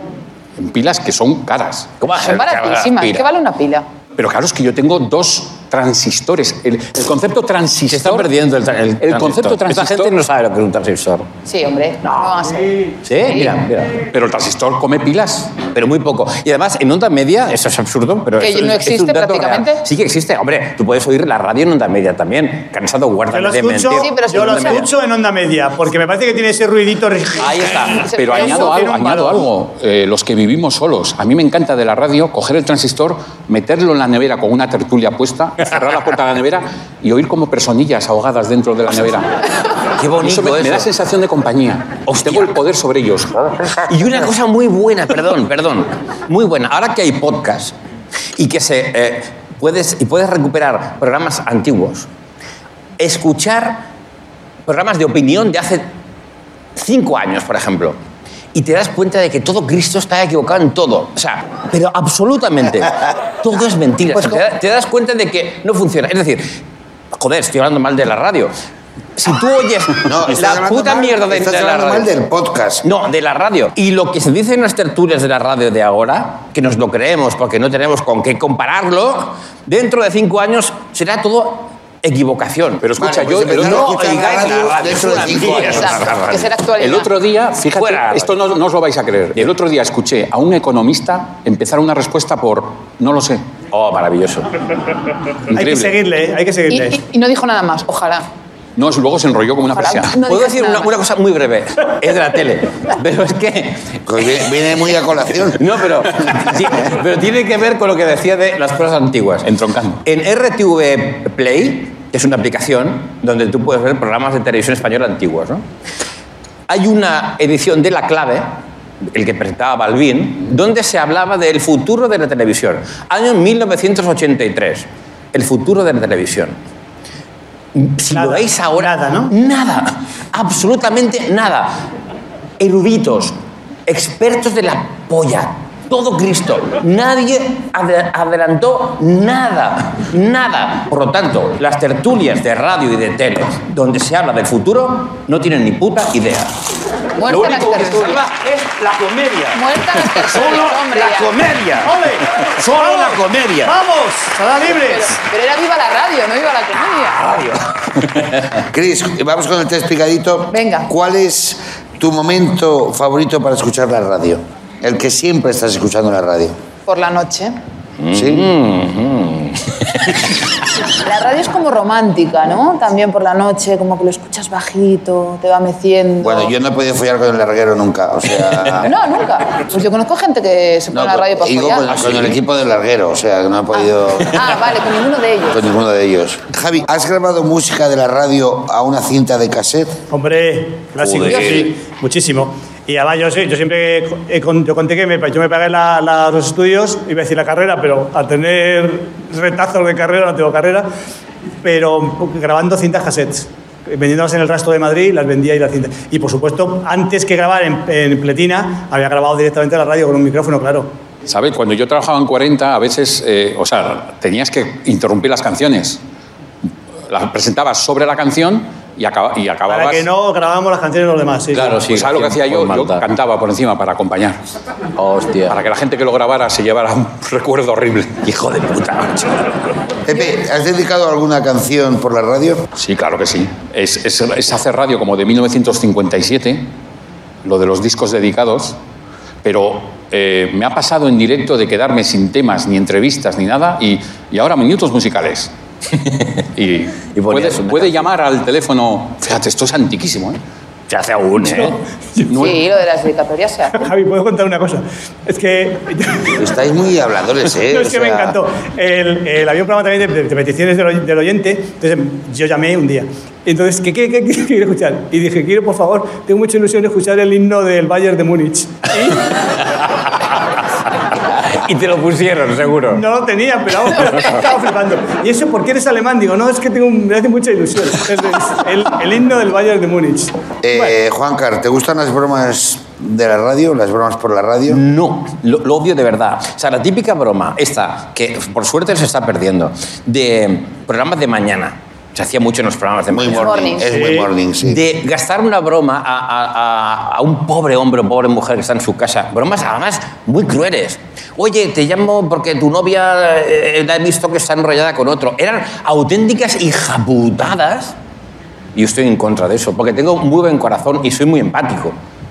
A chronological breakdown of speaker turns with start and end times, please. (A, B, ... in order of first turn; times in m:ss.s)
0:00.6-0:01.9 A
0:02.0-0:03.3 B
0:02.2-0:03.9 C
0:04.2-0:08.3 A
0:07.9-0:11.3 B
0:09.0-0:10.2 A
0:11.5-0:13.5 C
0:12.0-0:12.3 B
0:13.0-0:14.0 B
0:14.1-0:15.6 A
0:15.7-0:24.9 B
0:18.4-0:19.8 C
0:23.3-0:29.5 D
0:24.0-0:24.8 C
0:27.4-0:28.1 B
0:28.1-0:28.7 C
0:28.1-0:39.3 A
0:40.0-0:40.9 B
0:40.2-0:43.6 A
0:42.1-0:42.6 B
0:43.8-0:47.8 B
0:48.4-0:52.1 B
0:53.0-0:53.8 B
0:54.7-0:55.9 B
0:56.8-0:58.0 B
0:58.5-1:06.5 B
1:07.1-1:08.5 B
1:09.2-1:12.1 B
1:10.0-1:12.8 E
1:12.8-1:22.8 B
1:22.8-1:24.2 A
1:23.0-1:26.0 E
1:23.4-1:26.5 B
1:25.4-1:27.1 C
1:26.8-1:33.4 A
1:27.8-1:28.3 B
1:33.7-1:34.5 B
1:35.5-1:36.0 A
1:35.5-1:37.0 D
1:36.7-1:38.2 C
1:38.8-1:40.2 A
1:39.7-1:40.9 C
1:40.3-1:44.0 B
1:44.1-1:45.6 E
1:45.5-1:49.5 B
1:49.4-1:50.0 A
1:50.0-1:55.6 B
1:56.7-1:58.5 B
1:59.1-2:06.6 B
2:07.8-2:11.8 B
2:08.1-2:09.3 D
2:12.6-2:13.4 B
2:13.9-2:26.5 B
2:27.2-2:28.2 C
2:27.2-2:33.8 B
2:29.5-2:31.3 C
2:31.8-2:35.1 D
2:34.8-2:37.2 C
2:37.2-2:38.6 B
2:38.7-2:46.6 E
2:40.5-2:40.9 C
2:46.9-2:47.6 C
2:48.0-2:50.4 B
2:48.1-2:48.5 E
2:51.0-2:56.5 C
2:56.2-2:58.9 E
2:58.8-3:01.9 C
3:00.9-3:04.6 E
3:01.9-3:02.4 B
3:03.7-3:05.6 C
3:05.5-3:10.0 E
3:10.1-3:20.9 D
3:11.0-3:11.7 B
3:21.6-3:30.9 D
3:31.3-3:36.0 A
3:37.1-3:40.1 A
3:39.7-3:41.8 D
3:41.5-3:43.0 B
3:41.8-3:44.4 A
3:45.0-3:45.6 B
3:45.5-3:48.2 A
3:48.2-3:49.4 B
3:50.1-3:52.7 E
3:52.8-3:56.7 A
3:57.4-3:58.8 A
3:59.4-4:05.5 A
4:06.0-4:06.3 B
4:06.6-4:10.4 A
4:07.2-4:08.1 B
4:10.9-4:11.8 B
4:11.4-4:12.5 D
4:12.3-4:13.8 C
4:13.7-4:16.5 D
4:16.4-4:18.4 E
4:17.7-4:29.3 D
4:29.1-4:30.2 B
4:31.1-4:33.0 B
4:32.9-4:40.9 D
4:40.6-4:44.8 E
4:44.7-4:53.7 B
4:53.1-4:54.8 E
4:53.3-4:54.1 C
4:53.9-4:54.3 D
4:54.6-5:08.0 B
5:08.8-5:12.0 B